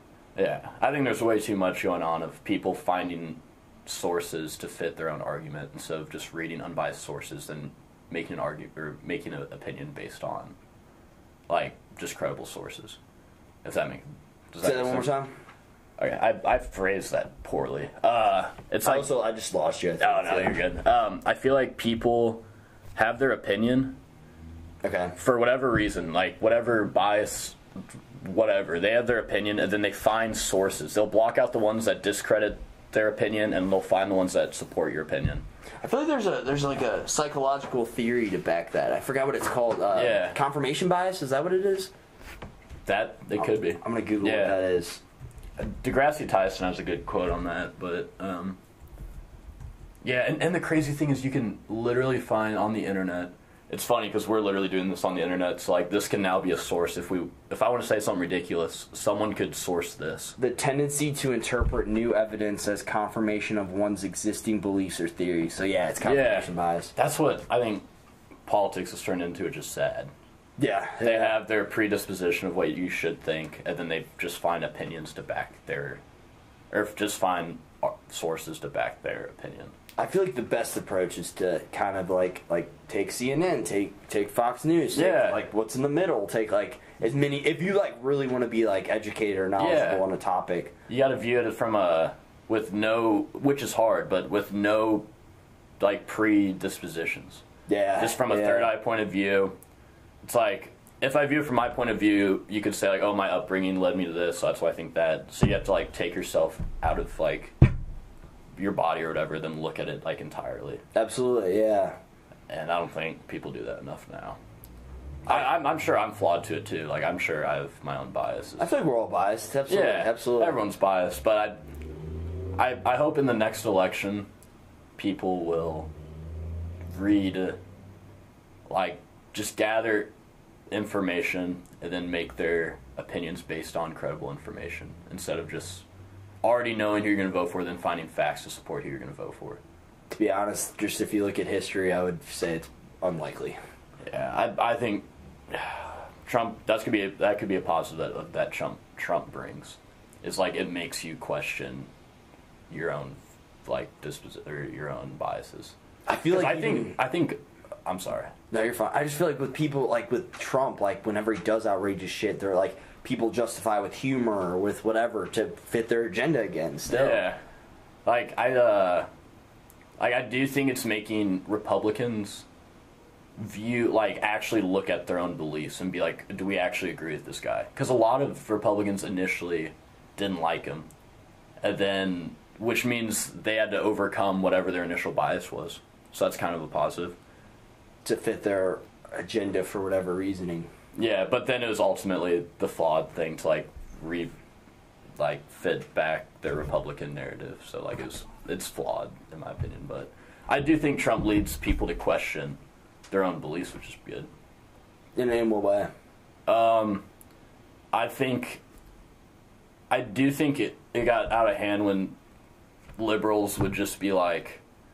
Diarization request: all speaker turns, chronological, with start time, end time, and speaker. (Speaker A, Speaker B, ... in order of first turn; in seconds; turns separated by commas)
Speaker A: 0.3-10.6, Speaker A: 11.5-13.0, Speaker A: 13.6-15.1, Speaker B: 14.6-15.3, Speaker A: 16.0-19.1, Speaker B: 18.8-20.6, Speaker A: 20.0-22.4, Speaker A: 22.9-24.0, Speaker B: 24.8-25.1, Speaker A: 25.2-35.4, Speaker B: 35.8-41.9, Speaker A: 39.9-40.4, Speaker A: 42.8-44.6, Speaker B: 43.4-45.0, Speaker A: 45.6-48.6, Speaker A: 50.0-60.4, Speaker B: 60.4-66.9, Speaker A: 66.0-67.8, Speaker A: 68.5-70.1, Speaker B: 70.6-71.4, Speaker A: 71.0-76.0, Speaker A: 76.7-79.7, Speaker B: 80.0-90.7, Speaker A: 84.9-85.4, Speaker A: 89.6-90.0, Speaker A: 90.9-95.1, Speaker A: 95.8-97.4, Speaker B: 97.7-98.7, Speaker A: 98.0-99.6, Speaker A: 100.2-107.5, Speaker A: 108.5-110.8, Speaker B: 110.9-112.0, Speaker A: 112.5-114.4, Speaker A: 115.2-118.7, Speaker B: 118.6-120.6, Speaker A: 119.7-121.6, Speaker A: 122.5-124.3, Speaker A: 125.0-125.9, Speaker A: 126.9-127.6, Speaker A: 128.7-130.1, Speaker A: 130.7-135.8, Speaker A: 136.4-139.6, Speaker B: 140.1-143.6, Speaker A: 144.0-151.9, Speaker A: 152.7-158.3, Speaker B: 156.1-157.0, Speaker B: 158.5-167.2, Speaker A: 166.9-167.4, Speaker A: 168.0-169.1, Speaker A: 170.0-172.4, Speaker A: 173.3-180.9, Speaker A: 181.6-187.2, Speaker B: 188.0-190.7, Speaker A: 190.9-194.3, Speaker A: 195.2-202.6, Speaker A: 203.1-204.3, Speaker B: 205.2-205.9, Speaker A: 206.5-207.1, Speaker A: 207.9-208.6, Speaker A: 209.9-212.2, Speaker A: 213.0-214.6